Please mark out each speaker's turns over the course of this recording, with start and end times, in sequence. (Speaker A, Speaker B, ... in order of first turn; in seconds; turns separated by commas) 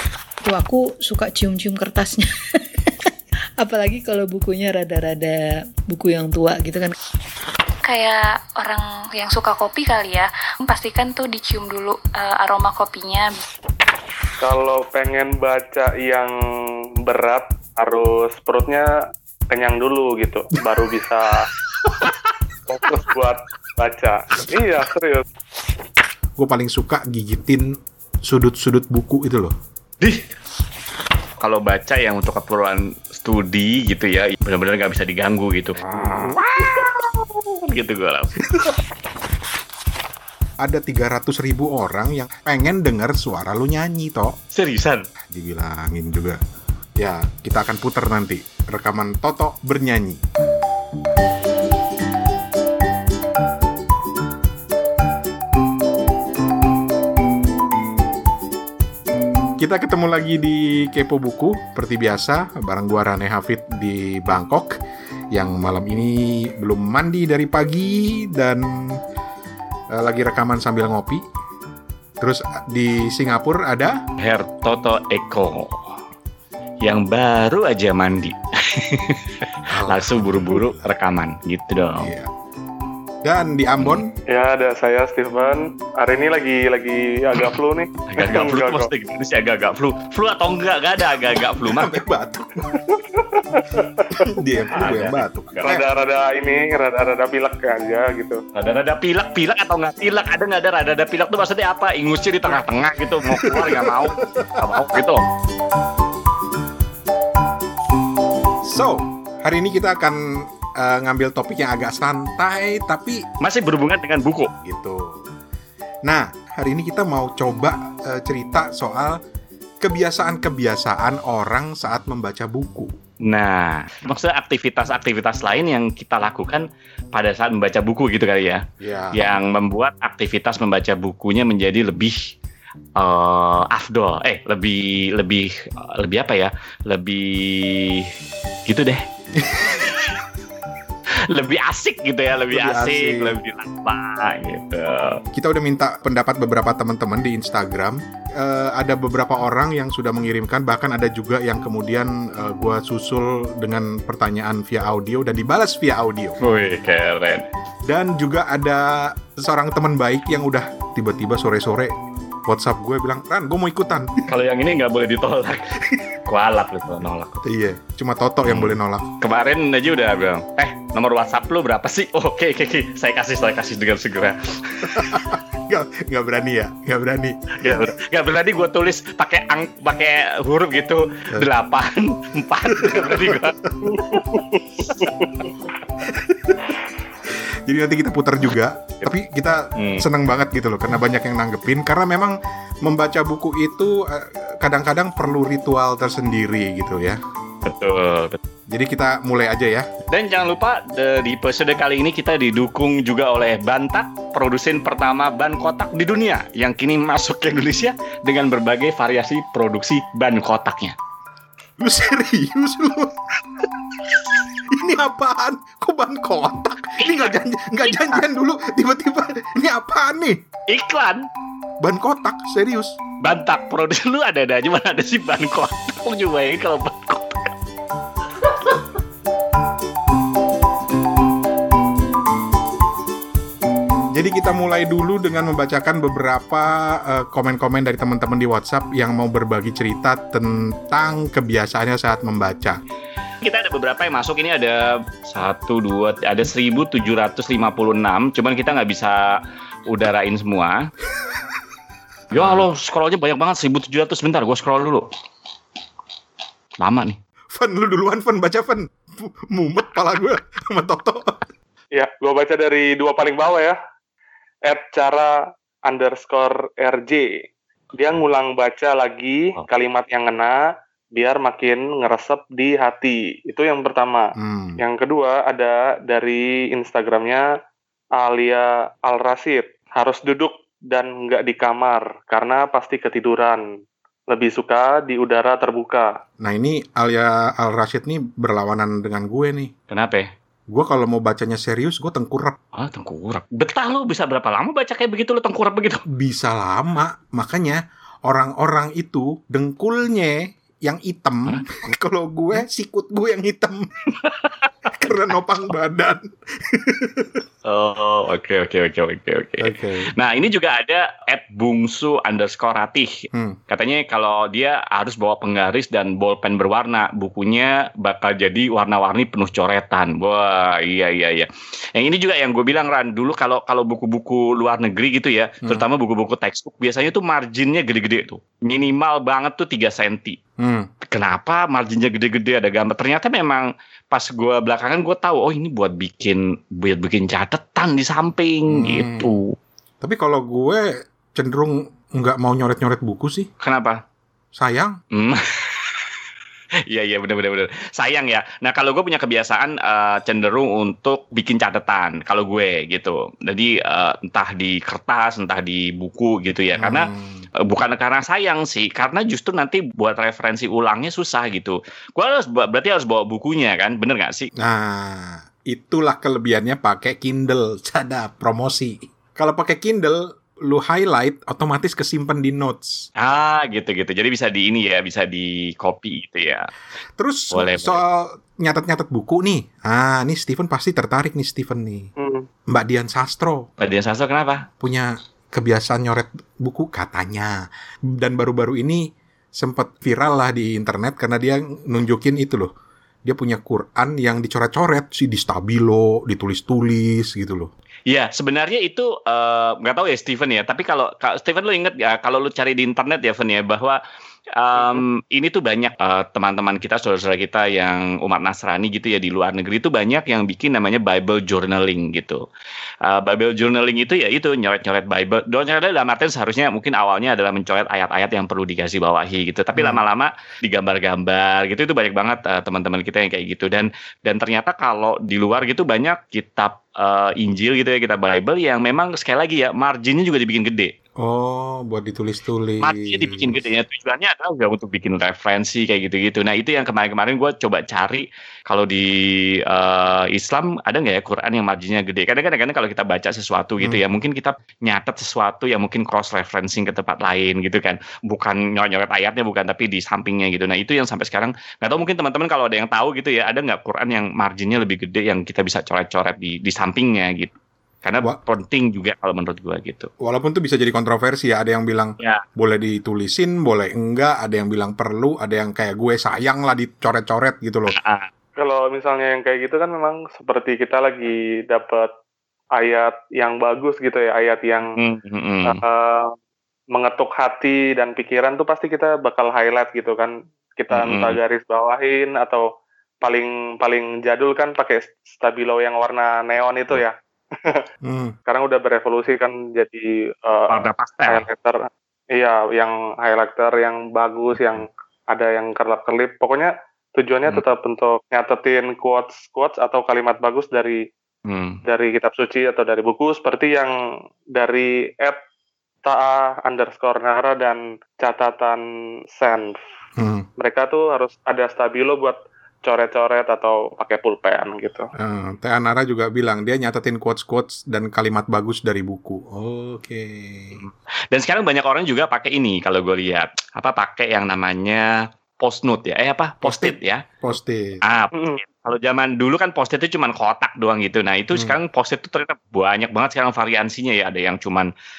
Speaker A: 0.4-2.3, Speaker A: 3.6-6.9, Speaker B: 7.8-13.3, Speaker C: 14.4-16.3, Speaker C: 17.1-18.9, Speaker C: 19.5-21.5, Speaker C: 22.7-25.2, Speaker D: 26.4-27.7, Speaker D: 28.2-29.5, Speaker E: 31.4-38.4, Speaker D: 35.8-36.4, Speaker D: 38.5-38.8, Speaker D: 40.6-44.4, Speaker E: 44.5-45.1, Speaker D: 45.3-46.4, Speaker D: 47.0-50.2, Speaker D: 59.6-64.8, Speaker D: 65.3-69.0, Speaker D: 69.9-71.2, Speaker D: 72.2-74.0, Speaker E: 74.2-75.9, Speaker E: 76.8-79.3, Speaker D: 79.7-80.9, Speaker E: 79.9-82.1, Speaker D: 82.0-82.3, Speaker D: 83.2-84.1, Speaker C: 84.3-88.9, Speaker E: 88.1-92.0, Speaker D: 91.6-93.0, Speaker C: 93.2-94.3, Speaker D: 94.1-95.8, Speaker E: 94.8-95.8, Speaker C: 95.6-98.4, Speaker E: 98.5-105.3, Speaker D: 103.3-105.0, Speaker D: 108.7-113.2, Speaker E: 113.4-114.5, Speaker D: 114.6-115.2, Speaker D: 116.0-119.2, Speaker D: 119.8-122.9, Speaker E: 123.3-132.3, Speaker D: 128.8-129.3, Speaker E: 133.0-138.1, Speaker E: 138.7-139.0, Speaker D: 139.4-139.9, Speaker E: 141.3-145.2, Speaker D: 142.5-143.4, Speaker D: 145.3-156.4, Speaker E: 156.4-157.5, Speaker D: 157.9-161.9, Speaker D: 162.5-164.2, Speaker E: 164.3-165.7, Speaker E: 166.3-167.4, Speaker D: 167.4-169.1, Speaker E: 168.4-175.2, Speaker D: 174.8-177.9, Speaker E: 177.6-183.6, Speaker D: 182.7-184.2, Speaker C: 184.0-185.5, Speaker D: 186.0-186.8, Speaker D: 187.3-197.2, Speaker E: 189.8-190.0, Speaker E: 197.7-198.4, Speaker D: 198.7-199.9, Speaker E: 200.1-210.9, Speaker D: 211.8-213.2, Speaker D: 214.7-220.4, Speaker E: 217.0-217.3, Speaker E: 217.9-218.2, Speaker E: 220.7-221.3, Speaker D: 221.8-223.0, Speaker E: 223.2-227.5, Speaker D: 234.1-242.8, Speaker E: 243.4-249.2, Speaker E: 249.9-250.9, Speaker D: 252.3-252.7, Speaker E: 252.3-255.1, Speaker E: 256.8-257.2, Speaker D: 257.5-261.5, Speaker C: 261.9-263.8, Speaker C: 264.7-265.4, Speaker C: 265.9-267.3, Speaker C: 268.0-270.6, Speaker C: 271.1-277.5, Speaker D: 274.4-274.8, Speaker C: 278.2-283.6, Speaker C: 284.3-286.1, Speaker D: 286.4-289.7, Speaker E: 289.9-290.3, Speaker D: 290.7-292.6, Speaker E: 292.8-296.0, Speaker D: 296.1-303.9, Speaker E: 304.2-304.9, Speaker D: 305.0-307.4, Speaker E: 307.7-313.1, Speaker D: 309.6-310.1, Speaker D: 313.3-313.6, Speaker E: 313.7-330.4, Speaker D: 330.6-330.9, Speaker E: 331.1-339.6, Speaker D: 338.7-339.3, Speaker D: 340.0-343.5, Speaker E: 343.6-344.0, Speaker D: 344.5-344.9, Speaker E: 345.1-345.9, Speaker E: 346.9-357.1, Speaker D: 356.8-357.5, Speaker E: 357.7-364.5, Speaker D: 364.6-373.1, Speaker E: 373.2-376.7, Speaker D: 377.2-382.1, Speaker E: 377.5-378.0, Speaker C: 382.2-382.5, Speaker D: 382.7-383.7, Speaker E: 383.8-384.7, Speaker D: 384.8-392.7, Speaker D: 393.2-397.7, Speaker E: 398.1-404.0, Speaker E: 404.6-412.4, Speaker E: 413.1-430.9, Speaker D: 419.8-420.0, Speaker D: 431.2-433.5, Speaker E: 432.8-457.5, Speaker E: 458.0-460.1, Speaker D: 460.2-467.9, Speaker E: 467.9-468.3, Speaker C: 468.6-472.1, Speaker C: 472.8-474.9, Speaker E: 475.0-475.8, Speaker C: 475.7-476.3, Speaker C: 476.9-482.6, Speaker E: 480.9-481.4, Speaker C: 483.2-487.9, Speaker D: 488.0-488.4, Speaker C: 488.5-490.7, Speaker E: 490.7-491.4, Speaker C: 491.3-501.1, Speaker E: 501.5-501.8, Speaker C: 501.9-503.9, Speaker C: 504.5-505.4, Speaker C: 506.1-508.8, Speaker C: 509.4-509.8, Speaker D: 510.2-510.5, Speaker C: 510.6-515.1, Speaker D: 515.2-520.8, Speaker E: 520.8-525.1, Speaker E: 525.6-527.2, Speaker D: 526.6-528.0, Speaker E: 528.0-534.9